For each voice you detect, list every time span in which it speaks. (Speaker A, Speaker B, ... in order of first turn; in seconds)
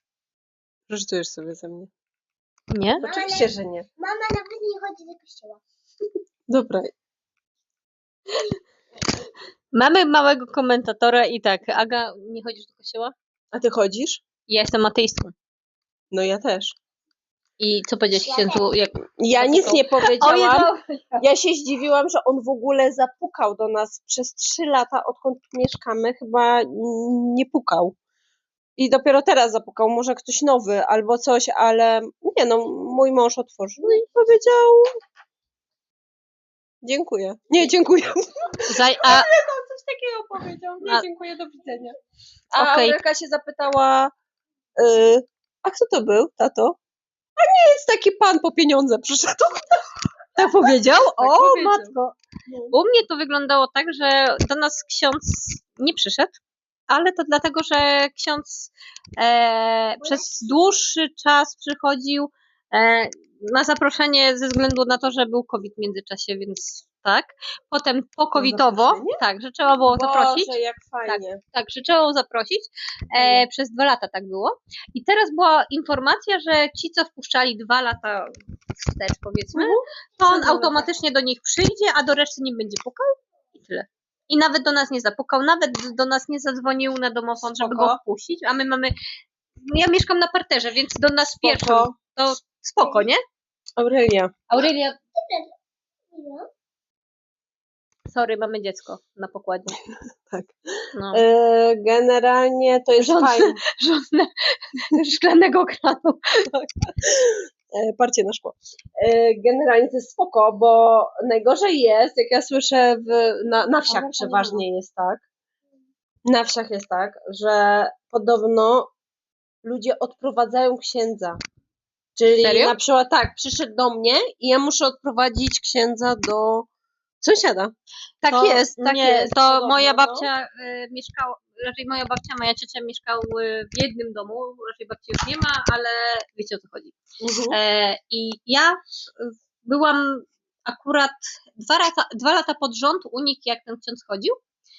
Speaker A: 0.9-1.9, 3.0-3.9, 6.5-6.9, 13.5-14.2, 16.1-16.8, 19.2-20.7, 21.2-28.0, 28.8-34.9, 36.8-42.0, 42.5-44.1, 44.8-46.8, 47.4-49.7, 50.9-52.0, 52.5-52.8, 68.3-69.2, 69.9-71.4, 73.1-73.5, 79.5-80.9, 87.4-88.0, 91.2-91.9, 93.8-94.3, 100.3-100.6, 101.1-103.6, 107.0-115.2, 116.3-118.9, 119.6-121.4, 122.2-126.7, 127.2-130.3, 137.2-137.6
Speaker B: 2.7-3.0, 9.7-13.1, 14.5-15.3, 17.6-21.2, 38.7-39.2, 42.6-43.0, 50.4-52.2, 52.7-56.4, 56.9-88.9, 89.7-93.2, 94.5-95.0, 98.1-99.8, 101.0-101.2, 103.0-106.5, 113.9-114.6, 122.4-122.8, 128.3-137.0, 137.5-144.4
Speaker C: 3.0-5.6, 18.3-18.6, 95.2-95.5, 96.1-96.5